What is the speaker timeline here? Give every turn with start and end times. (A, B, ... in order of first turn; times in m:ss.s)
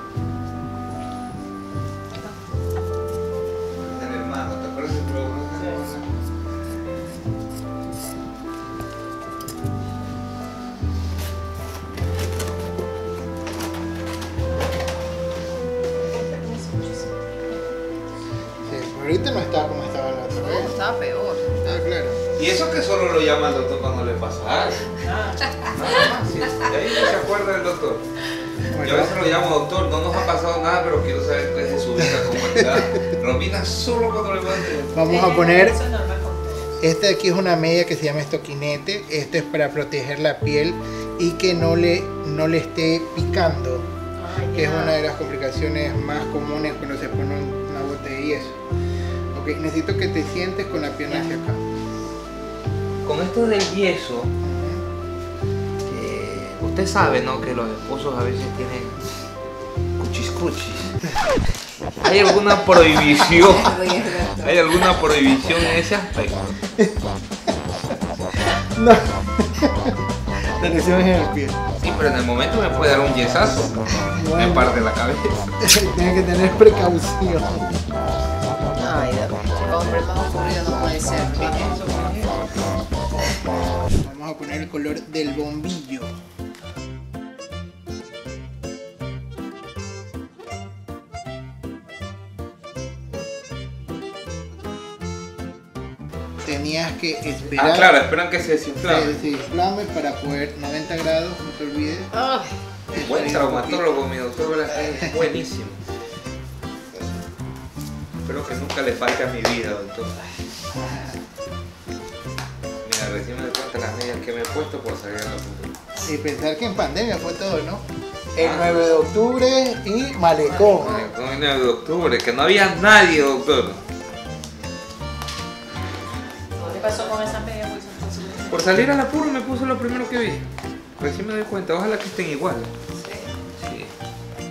0:03.8-0:06.0 A
0:16.1-0:17.1 B
0:18.6-0:20.8 C
0:20.4-0:21.6 D
0:21.6-0:22.2 C
0:22.4-0:24.9 A
0:25.1-0:25.5 B
0:25.6-0:28.0 A
0:28.7-0:29.3 C
0:28.8-0:35.0 A
0:32.0-0:33.0 C
0:34.9-0:35.8 C
0:35.0-0:36.7 B
0:36.8-0:43.9 C
0:44.2-0:45.0 D
0:44.5-0:48.6 C
0:49.3-0:51.6 C
0:53.0-0:54.3 A
0:54.4-0:54.8 C
0:55.9-0:59.0 A
1:00.0-1:00.9 A
1:02.0-1:03.8 A
1:03.0-1:04.9 D
1:04.4-1:06.6 A
1:08.5-1:10.0 C
1:10.5-1:11.6 C
1:11.8-1:13.8 A
1:13.9-1:14.8 C
1:14.4-1:15.4 A
1:15.6-1:17.8 C
1:18.8-1:21.7 D
1:21.3-1:22.6 A
1:24.0-1:26.1 C
1:36.4-1:38.0 C
1:37.4-1:39.2 A
1:38.8-1:42.1 C
1:42.1-1:42.6 D
1:42.9-1:44.0 C
1:43.0-1:45.8 A
1:44.8-1:45.4 C
1:48.2-1:50.2 A
1:50.7-1:51.2 C
1:52.8-1:55.7 A
1:56.0-2:00.9 C
1:58.4-1:58.8 A
2:00.7-2:03.8 A
2:06.6-2:08.7 B
2:08.5-2:10.5 A
2:11.0-2:12.7 A
2:12.9-2:13.3 D
2:13.6-2:13.9 A